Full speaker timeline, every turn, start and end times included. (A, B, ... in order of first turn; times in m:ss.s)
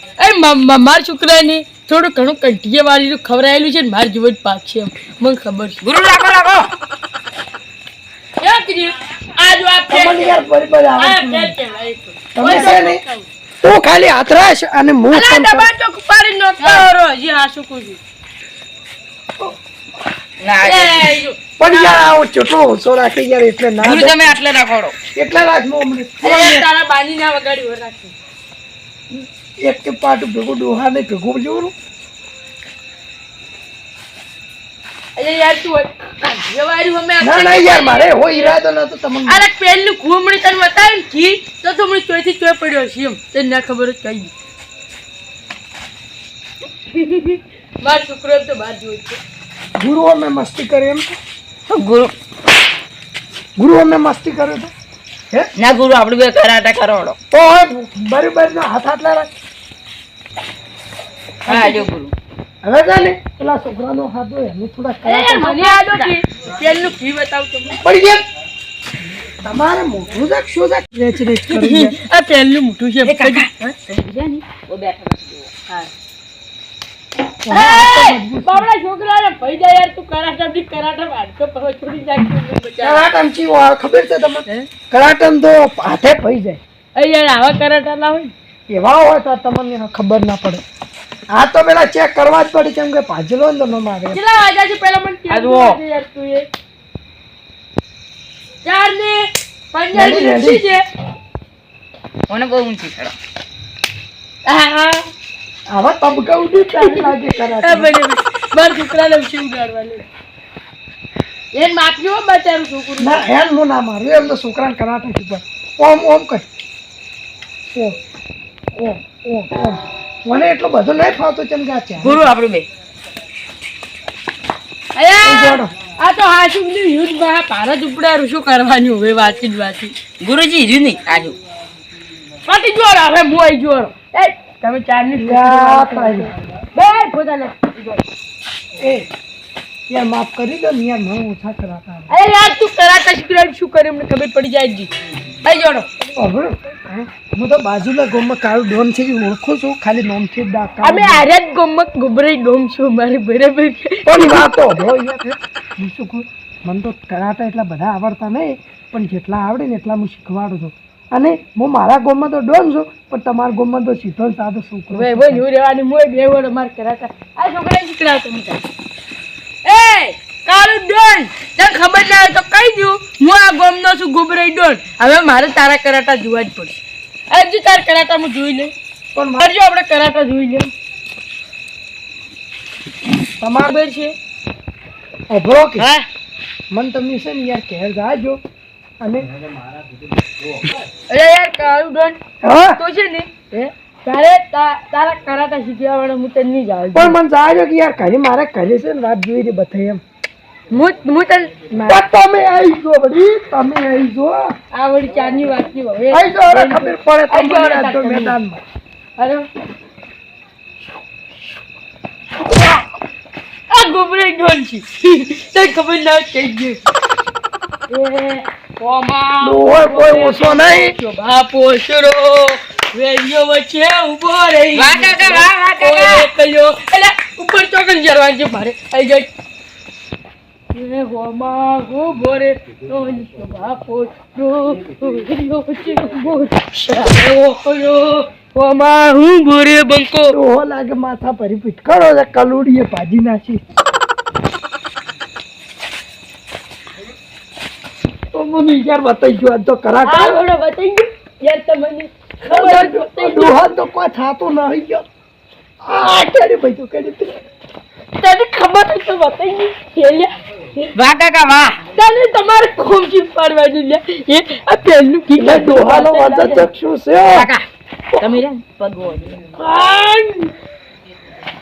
0:00.2-0:05.8 A
0:05.8-0:06.7 B
0:08.4-0:13.3 A
0:09.9-0:11.5 C
0:12.4-0:13.0 C
0:13.6-0:15.7 C
0:15.1-0:18.0 A
0:20.4-0:21.2 B
0:20.6-0:22.1 A
0:21.6-0:24.4 C
0:23.8-0:25.0 B
0:25.1-0:26.7 C
0:26.2-0:28.1 A
0:29.6-0:31.7 C
0:35.2-0:38.6 A
0:37.2-0:39.4 C
0:39.3-0:44.3 A
0:46.9-0:49.2 A
0:49.8-0:51.1 C
0:51.7-0:52.1 B
0:53.6-0:54.7 C
0:55.6-0:57.2 B
0:57.3-0:59.3 C
1:01.4-1:01.9 C
1:01.4-1:02.1 B
1:02.6-1:05.6 C
1:05.0-1:07.8 A
1:05.4-1:06.2 B
1:07.8-1:08.2 C
1:09.3-1:12.0 C
1:11.5-1:13.5 A
1:13.0-1:15.5 B
1:17.4-1:18.7 C
1:17.5-1:23.1 A
1:22.8-1:26.6 C
1:26.9-1:28.3 A
1:28.7-1:30.6 C
1:31.3-1:34.2 C
1:34.1-1:36.5 A
1:35.3-1:35.8 B
1:38.6-1:40.8 A
1:39.9-1:40.6 C
1:42.3-1:43.1 B
1:44.4-1:45.1 A
1:45.7-1:47.9 C
1:46.7-1:50.0 A
1:51.5-1:53.2 A
1:53.0-1:56.4 C
1:57.7-1:58.0 C
1:58.8-2:02.3 C
2:02.0-2:02.6 B
2:04.9-2:09.9 A
2:05.2-2:05.7 C
2:10.2-2:11.4 B
2:12.4-2:18.0 A
2:15.2-2:16.3 C
2:18.8-2:19.1 C
2:19.9-2:22.1 C
2:22.1-2:24.9 A
2:25.4-2:25.9 A
2:26.0-2:31.2 C
2:30.8-2:34.5 A
2:34.0-2:45.4 C
2:44.9-2:48.6 A
2:49.6-2:58.7 A
2:59.1-2:59.5 C
2:59.4-3:00.7 A
3:03.4-3:03.8 C
3:03.6-3:04.1 A
3:05.3-3:05.9 C
3:05.8-3:06.0 A
3:06.7-3:08.4 C
3:09.0-3:09.3 C
3:11.1-3:12.2 A
3:12.4-3:12.8 C
3:12.8-3:17.2 A
3:16.9-3:20.0 C
3:20.7-3:22.0 A
3:21.8-3:24.5 C
3:24.7-3:28.4 A
3:26.1-3:28.6 C
3:29.2-3:29.5 A
3:33.7-3:36.8 A
3:37.9-3:49.3 A
3:39.4-3:41.0 C
3:44.7-3:46.3 B
3:50.7-4:00.4 A
4:00.3-4:03.6 C
4:08.3-4:10.4 C
4:10.0-4:13.6 A
4:12.5-4:15.0 C
4:15.8-4:17.4 C
4:18.2-4:20.9 A
4:20.9-4:21.8 B
4:21.9-4:26.7 A
4:25.4-4:27.5 C
4:27.3-4:27.6 B
4:28.2-4:29.4 B
4:29.5-4:30.5 A